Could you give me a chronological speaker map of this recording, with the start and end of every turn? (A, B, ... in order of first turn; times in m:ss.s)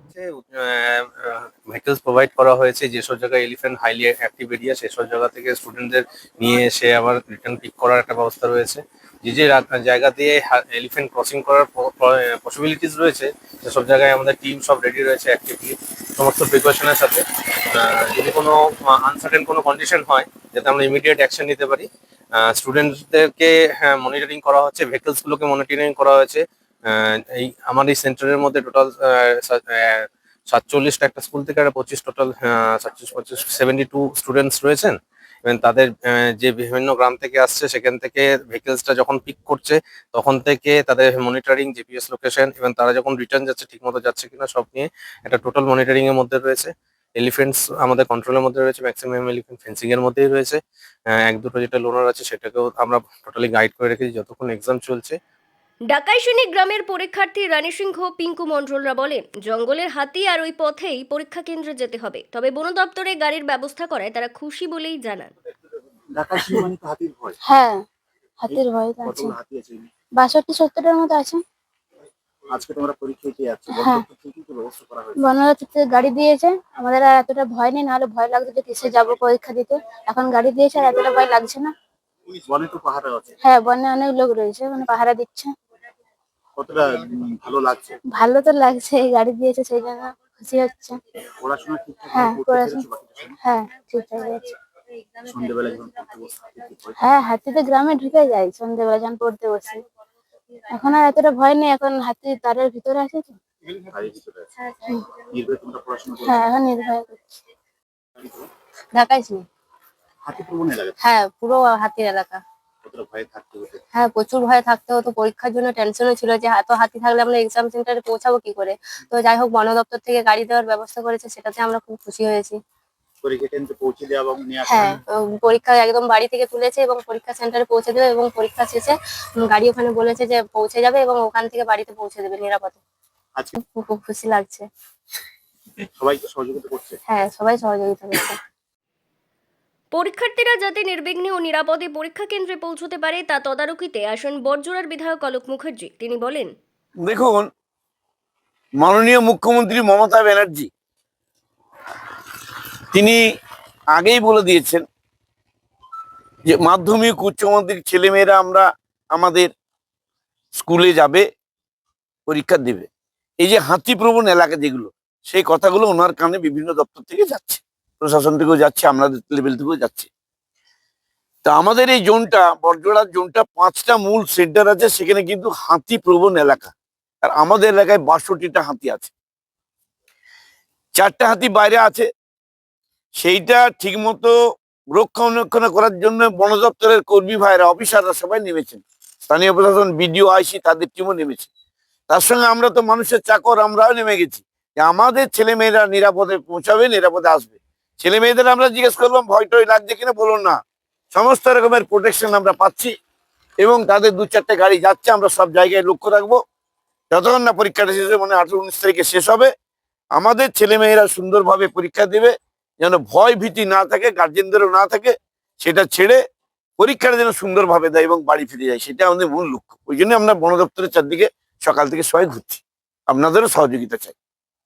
0:00.1-0:21.9 A
0:22.4-0:50.6 A
0:51.2-0:55.2 A
0:55.9-1:05.3 B
1:06.2-1:07.4 C
1:07.4-1:07.8 D
1:08.4-1:09.3 D
1:08.5-1:09.9 C
1:10.2-1:11.4 D
1:12.5-1:15.2 C
1:13.7-1:14.0 D
1:15.2-1:21.7 D
1:22.5-1:23.3 C
1:23.4-1:25.5 D
1:26.6-1:28.0 C
1:28.1-1:31.0 D
1:31.4-1:33.3 C
1:32.1-1:32.8 D
1:33.4-1:34.4 D
1:35.2-1:36.9 C
1:37.0-1:39.8 D
1:40.7-1:43.4 D
1:43.7-1:44.5 C
1:44.6-1:45.0 E
1:45.3-1:46.5 C
1:46.2-1:47.2 D
1:48.2-1:48.5 C
1:48.9-1:49.4 E
1:50.2-1:51.0 C
1:51.0-1:52.4 E
1:52.8-1:53.8 C
1:53.9-2:02.6 E
2:03.2-2:05.0 C
2:04.7-2:12.8 E
2:13.7-2:14.7 E
2:16.0-2:17.0 C
2:17.1-2:18.4 E
2:19.9-2:26.5 B
2:27.0-2:27.5 F
2:28.8-2:30.7 F
2:32.9-2:33.2 F
2:33.9-2:34.8 F
2:36.4-2:39.5 F
2:40.5-2:41.2 F
2:42.3-2:42.9 F
2:43.4-2:50.1 F
2:51.4-2:59.1 F
3:01.0-3:02.1 F
3:03.2-3:04.3 F
3:04.9-3:11.5 F
3:12.1-3:20.6 F
3:21.1-3:22.9 F
3:23.6-3:26.4 F
3:27.1-3:29.5 F
3:30.2-3:36.2 F
3:36.8-3:44.2 F